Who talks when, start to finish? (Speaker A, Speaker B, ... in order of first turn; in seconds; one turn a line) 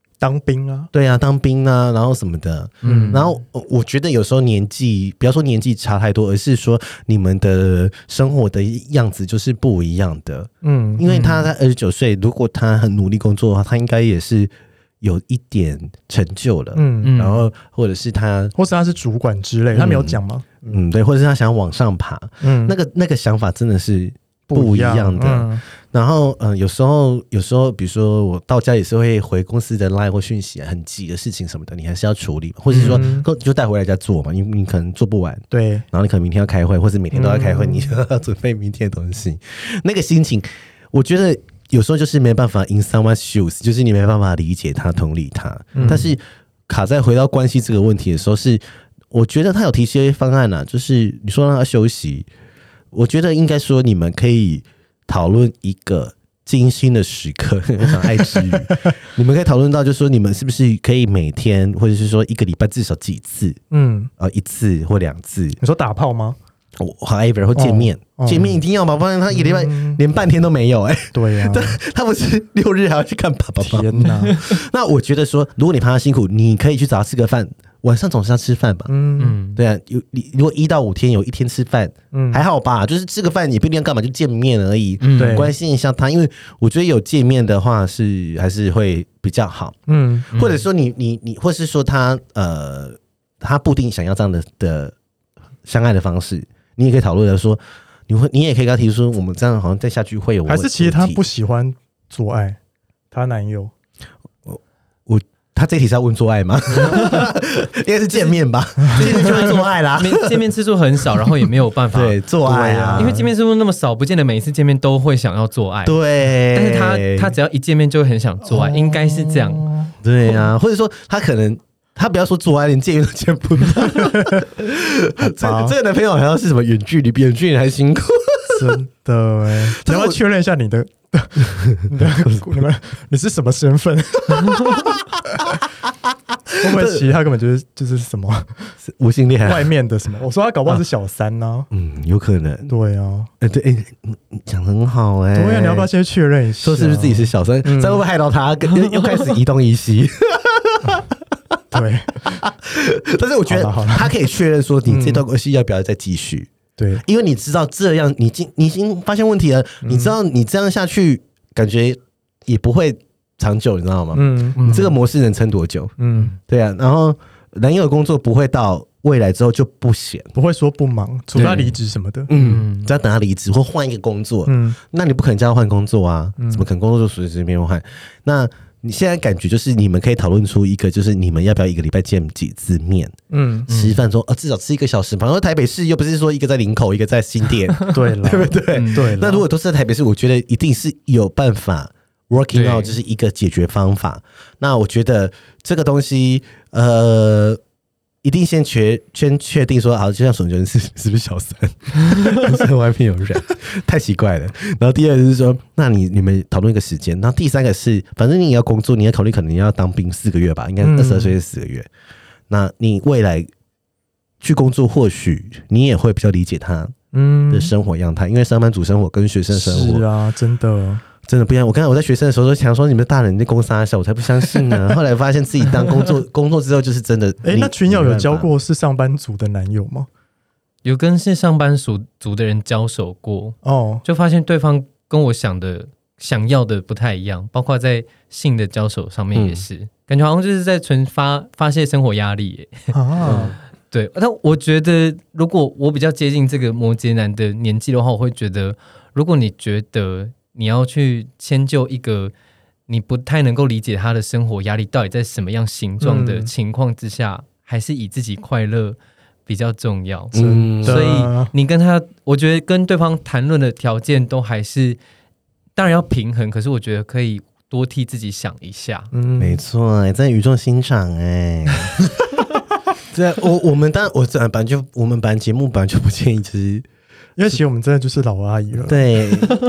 Speaker A: 0.2-0.9
Speaker B: 0.9-18.5
Speaker C: 2.8-3.3
Speaker A: 2.8-3.2
Speaker A: 10.6-11.1
Speaker C: 11.0-11.5
Speaker A: 16.7-17.2
Speaker C: 17.0-17.4
Speaker A: 18.6-20.8
Speaker B: 19.7-52.3
Speaker A: 22.4-22.8
Speaker A: 24.5-25.6
Speaker A: 32.7-33.3
Speaker C: 32.8-33.0
Speaker A: 35.5-35.9
Speaker A: 37.1-37.9
Speaker A: 45.8-46.1
Speaker B: 52.9-63.6
Speaker A: 63.7-64.1
Speaker B: 64.2-65.6
Speaker A: 65.6-66.4
Speaker B: 66.8-78.9
Speaker A: 67.5-68.6
Speaker A: 69.3-70.0
Speaker A: 71.1-71.8
Speaker A: 73.6-74.3
Speaker A: 78.9-79.4
Speaker C: 79.2-79.6
Speaker B: 79.5-89.8
Speaker A: 82.1-82.4
Speaker C: 85.0-85.5
Speaker A: 85.2-85.5
Speaker A: 89.9-90.3
Speaker B: 90.3-95.0
Speaker C: 90.3-90.7
Speaker B: 95.7-101.2
Speaker A: 100.5-102.6
Speaker A: 103.1-103.7
Speaker B: 104.5-110.3
Speaker C: 108.9-112.2
Speaker B: 111.9-113.2
Speaker A: 112.4-113.3
Speaker C: 112.9-116.0
Speaker B: 115.8-117.3
Speaker C: 116.5-119.7
Speaker A: 118.5-120.0
Speaker B: 120.0-128.8
Speaker A: 123.7-124.4
Speaker A: 125.2-125.7
Speaker A: 128.6-134.9
Speaker B: 129.7-130.2
Speaker B: 132.0-132.6
Speaker B: 136.5-137.1
Speaker A: 136.6-138.8
Speaker B: 138.8-139.7
Speaker A: 139.4-141.7
Speaker B: 141.7-142.7
Speaker A: 142.7-143.3
Speaker B: 143.4-145.9
Speaker A: 145.3-148.0
Speaker B: 146.6-151.1
Speaker A: 151.7-152.4
Speaker B: 152.2-156.5
Speaker A: 153.5-154.1
Speaker A: 154.9-155.2
Speaker A: 156.8-157.0
Speaker B: 157.0-170.3
Speaker A: 159.9-160.2
Speaker A: 164.1-164.6
Speaker C: 164.6-165.0
Speaker A: 166.0-166.4
Speaker A: 170.3-172.3
Speaker C: 171.3-171.7
Speaker B: 171.3-171.7
Speaker B: 172.3-183.1
Speaker C: 172.3-172.9
Speaker A: 174.5-174.8
Speaker A: 176.4-176.7
Speaker A: 183.3-183.7
Speaker C: 183.7-184.0
Speaker B: 183.7-197.6
Speaker A: 187.9-189.4
Speaker C: 188.7-189.2
Speaker C: 192.5-192.9
Speaker B: 198.2-211.9
Speaker A: 210.8-211.3
Speaker B: 212.5-213.5
Speaker B: 214.4-216.9
Speaker A: 217.1-217.7
Speaker B: 217.5-220.1
Speaker A: 219.5-221.0
Speaker B: 221.2-228.5
Speaker A: 227.4-230.1
Speaker C: 230.8-252.3
Speaker A: 233.6-234.0
Speaker B: 239.3-239.7
Speaker A: 242.9-243.6
Speaker B: 243.2-243.6
Speaker C: 252.9-265.0
Speaker A: 256.0-256.5
Speaker B: 260.3-261.2
Speaker A: 260.4-261.5
Speaker C: 265.8-269.1
Speaker A: 269.1-269.6
Speaker B: 269.4-272.0
Speaker B: 273.1-276.9
Speaker A: 277.4-279.5
Speaker B: 278.9-279.6